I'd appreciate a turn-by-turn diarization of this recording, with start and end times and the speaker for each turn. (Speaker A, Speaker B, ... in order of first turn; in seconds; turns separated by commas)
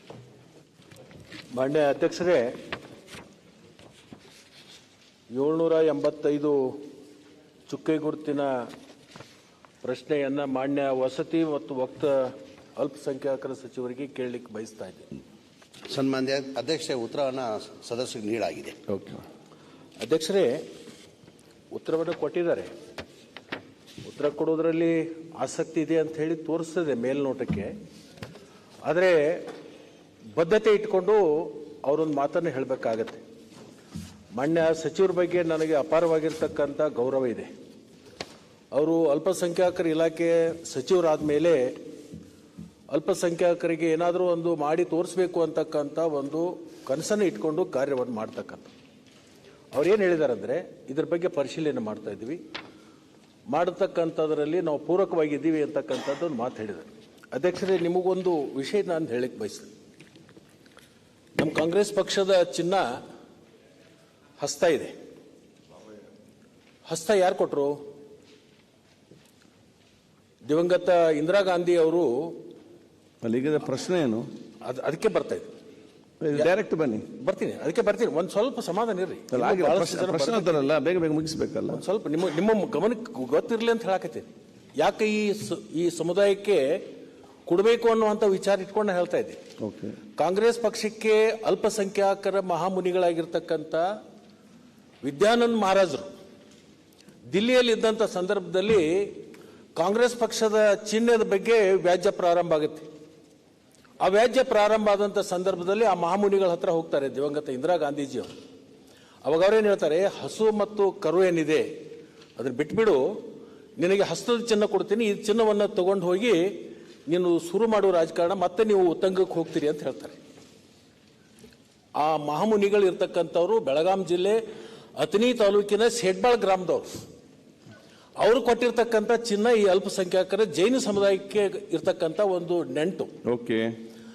Speaker A: 1.5-2.5, Speaker A: 5.3-6.8, Speaker A: 7.7-8.5, Speaker A: 9.8-15.1, Speaker B: 15.9-18.8, Speaker C: 18.9-19.2, Speaker A: 20.0-20.6, Speaker A: 21.7-22.7, Speaker A: 24.0-27.8, Speaker A: 28.8-29.5, Speaker A: 30.4-33.2, Speaker A: 34.3-37.5, Speaker A: 38.7-41.8, Speaker A: 42.9-48.7, Speaker A: 49.7-52.4, Speaker A: 53.5-59.7, Speaker A: 61.4-62.9, Speaker A: 64.4-64.9, Speaker A: 66.9-67.8, Speaker A: 70.5-72.4, Speaker C: 73.2-74.2, Speaker A: 74.7-75.5, Speaker C: 76.2-77.0, Speaker A: 77.2-80.7, Speaker C: 79.3-81.8, Speaker A: 81.7-86.8, Speaker A: 87.5-89.4, Speaker C: 89.6-90.0, Speaker A: 90.2-93.9, Speaker A: 95.0-96.1, Speaker A: 97.3-99.2, Speaker A: 99.8-102.9, Speaker A: 104.0-108.3, Speaker A: 109.2-111.7, Speaker A: 112.4-113.0, Speaker A: 113.8-116.5, Speaker A: 117.1-120.2, Speaker A: 122.0-124.4, Speaker A: 125.0-126.9, Speaker A: 128.2-133.1, Speaker C: 133.3-133.7